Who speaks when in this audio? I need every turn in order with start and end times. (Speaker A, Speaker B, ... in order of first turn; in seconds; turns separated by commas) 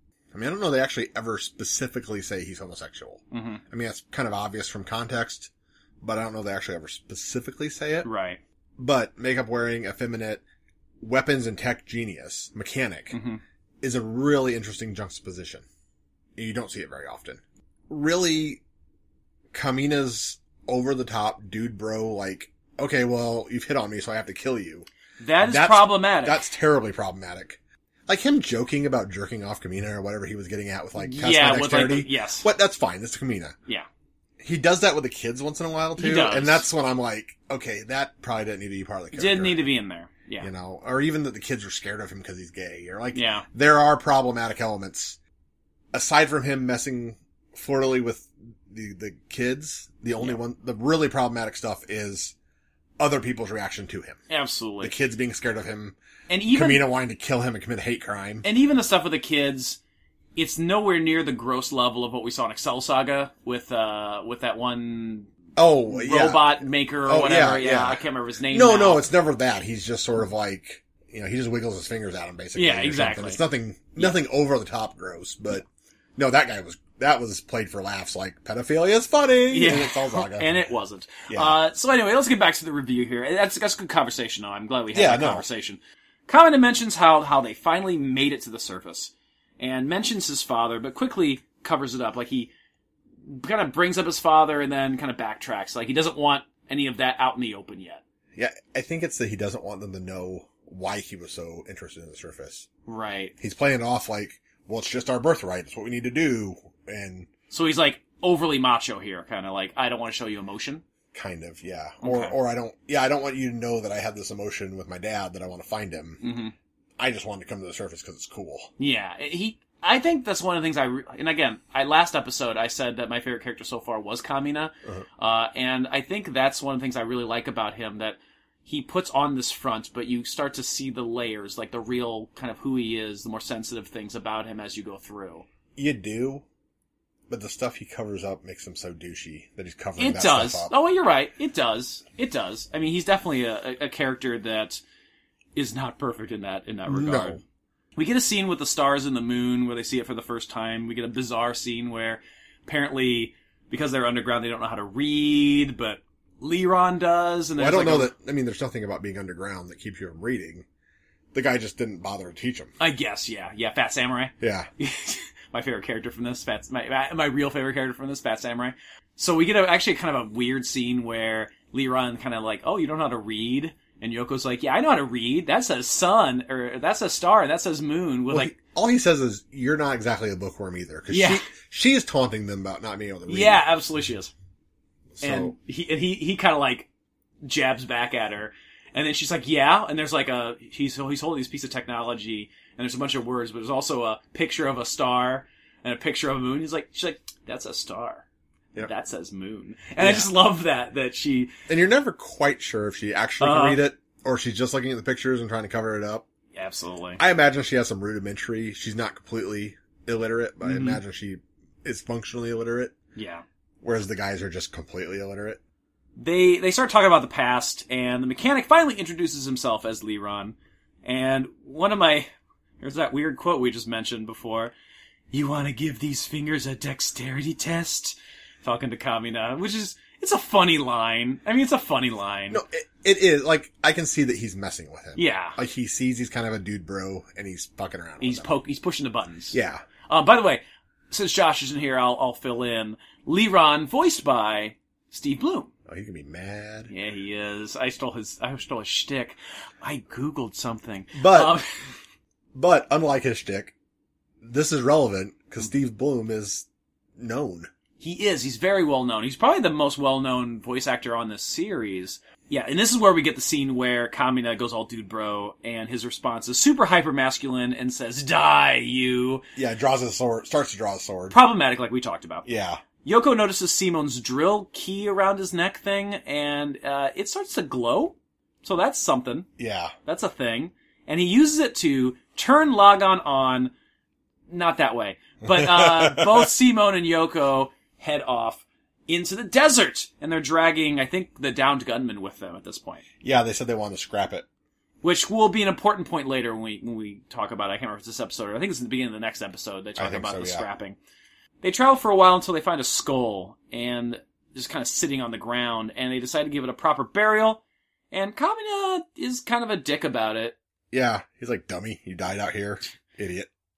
Speaker A: 0.3-5.5, Speaker B: 3.3-3.6, Speaker A: 6.0-8.1, Speaker B: 8.0-8.4, Speaker A: 8.8-10.4, Speaker A: 11.0-13.2, Speaker B: 13.1-13.4, Speaker A: 13.8-15.7, Speaker A: 16.4-18.6, Speaker A: 19.5-24.9, Speaker B: 25.2-26.4, Speaker A: 25.4-33.6, Speaker B: 31.0-32.5, Speaker A: 34.4-39.6, Speaker B: 36.0-36.7, Speaker B: 39.1-40.5, Speaker A: 40.4-45.2, Speaker B: 43.1-43.5, Speaker A: 45.9-52.4, Speaker A: 53.0-54.2, Speaker B: 54.3-54.9, Speaker A: 54.8-56.0, Speaker B: 56.3-56.8, Speaker A: 56.5-58.5, Speaker B: 58.4-59.8, Speaker B: 60.4-65.3, Speaker A: 65.6-80.7, Speaker B: 65.9-69.0, Speaker B: 72.5-73.4, Speaker B: 79.5-92.5, Speaker A: 81.3-81.6, Speaker A: 84.9-85.5, Speaker B: 93.3-98.0, Speaker A: 98.3-102.7, Speaker B: 102.9-103.3, Speaker A: 103.4-107.3, Speaker B: 107.5-110.8, Speaker A: 111.1-116.2, Speaker B: 112.0-112.3, Speaker B: 116.2-116.5, Speaker A: 117.0-118.7, Speaker B: 118.8-135.5, Speaker A: 135.8-136.4, Speaker A: 137.3-140.7, Speaker B: 140.0-144.8, Speaker B: 145.6-147.4, Speaker A: 146.9-147.4, Speaker B: 148.0-158.1, Speaker A: 157.6-160.7, Speaker A: 161.3-162.7, Speaker B: 162.8-178.6, Speaker A: 164.4-164.7, Speaker A: 178.3-183.7, Speaker B: 181.1-181.5, Speaker B: 183.3-184.3, Speaker A: 185.2-185.5, Speaker B: 185.2-186.9, Speaker B: 187.4-198.2, Speaker B: 198.8-201.5, Speaker A: 200.0-200.3, Speaker A: 201.7-206.2, Speaker B: 203.4-203.8, Speaker B: 206.5-207.2, Speaker A: 207.2-213.0, Speaker B: 210.6-211.0, Speaker B: 213.2-213.4, Speaker A: 213.8-215.6, Speaker B: 216.2-222.3, Speaker B: 222.8-224.7, Speaker B: 225.3-232.6, Speaker A: 232.5-238.5, Speaker B: 235.2-235.6, Speaker B: 238.2-245.7, Speaker A: 239.5-239.8, Speaker A: 245.9-246.9, Speaker B: 246.9-251.9, Speaker A: 251.2-251.6, Speaker A: 252.5-253.8, Speaker A: 254.4-256.7, Speaker A: 257.2-257.7, Speaker B: 258.0-269.5, Speaker A: 269.6-271.4, Speaker B: 271.3-272.5, Speaker A: 272.5-272.8, Speaker B: 273.0-279.5, Speaker A: 279.6-279.9, Speaker B: 280.1-283.7, Speaker B: 284.5-293.0, Speaker A: 285.4-286.5, Speaker A: 293.2-294.5, Speaker B: 295.0-301.0, Speaker A: 300.0-300.7, Speaker B: 301.6-307.6, Speaker B: 308.1-310.6, Speaker A: 310.9-313.5